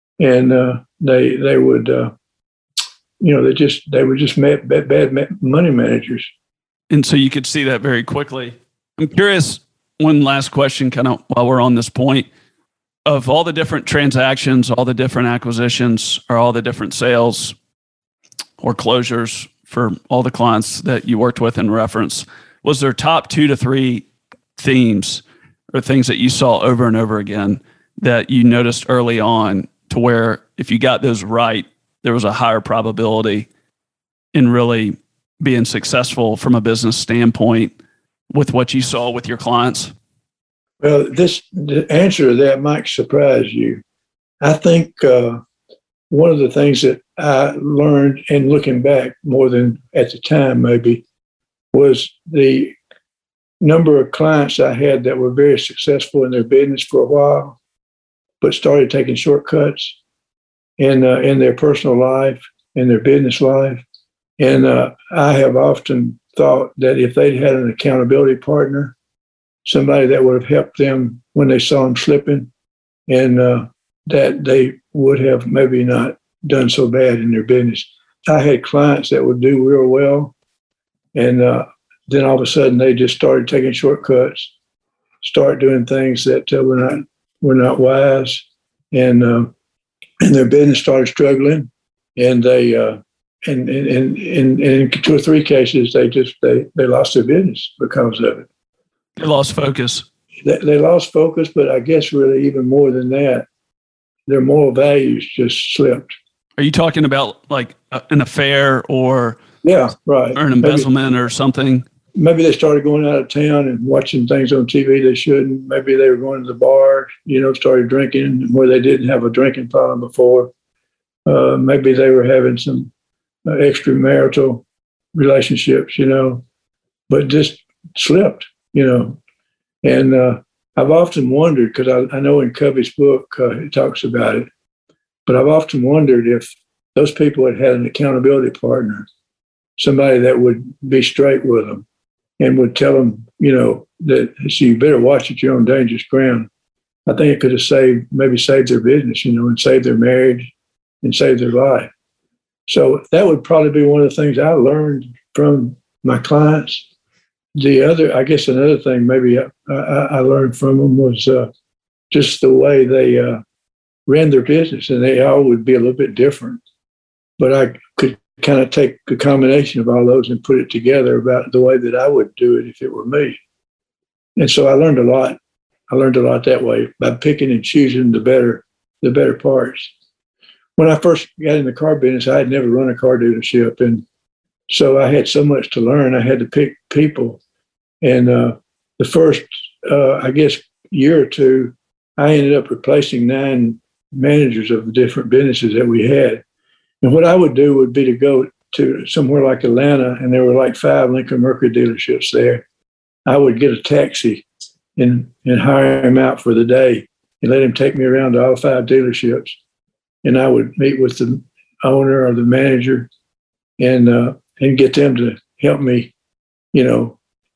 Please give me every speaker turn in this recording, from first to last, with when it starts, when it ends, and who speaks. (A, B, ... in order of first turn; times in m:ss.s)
0:00.2-0:02.1 A
0:03.2-0:06.3 A
0:06.9-0:12.3 B
0:13.1-0:17.6 B
0:18.6-0:24.1 B
0:24.6-0:33.5 B
0:34.3-0:37.7 B
0:38.3-0:39.9 B
0:40.8-0:43.8 A
0:44.4-0:45.4 A
0:46.1-0:51.0 A
0:51.7-0:52.8 A
0:53.6-0:57.6 A
0:58.4-1:00.0 A
1:00.8-1:03.8 A
1:04.4-1:09.0 A
1:09.6-1:12.5 A
1:13.1-1:20.3 A
1:21.1-1:24.5 A
1:25.2-1:29.5 A
1:30.2-1:38.5 A
1:39.2-1:40.0 B
1:40.4-1:43.5 A
1:44.3-1:46.2 A
1:46.6-1:49.4 B
1:49.6-1:50.9 A
1:50.4-1:51.8 B
1:52.1-2:00.5 A
2:01.3-2:02.9 A
2:03.5-2:06.4 A
2:07.1-2:09.2 A
2:09.8-2:14.5 A
2:15.3-2:19.1 A
2:19.8-2:21.8 A
2:22.4-2:26.5 A
2:27.1-2:30.5 A
2:31.0-2:31.9 A
2:32.7-2:36.9 A
2:37.6-2:41.5 A
2:42.1-2:43.4 A
2:44.1-2:46.6 A
2:47.4-2:53.4 A
2:54.4-2:55.4 A
2:55.9-2:59.9 A
3:00.8-3:04.0 A
3:04.7-3:07.4 A
3:08.0-3:16.4 A
3:17.0-3:22.6 A
3:23.3-3:29.6 A
3:30.2-3:33.1 A
3:33.8-3:36.1 A
3:36.7-3:37.2 A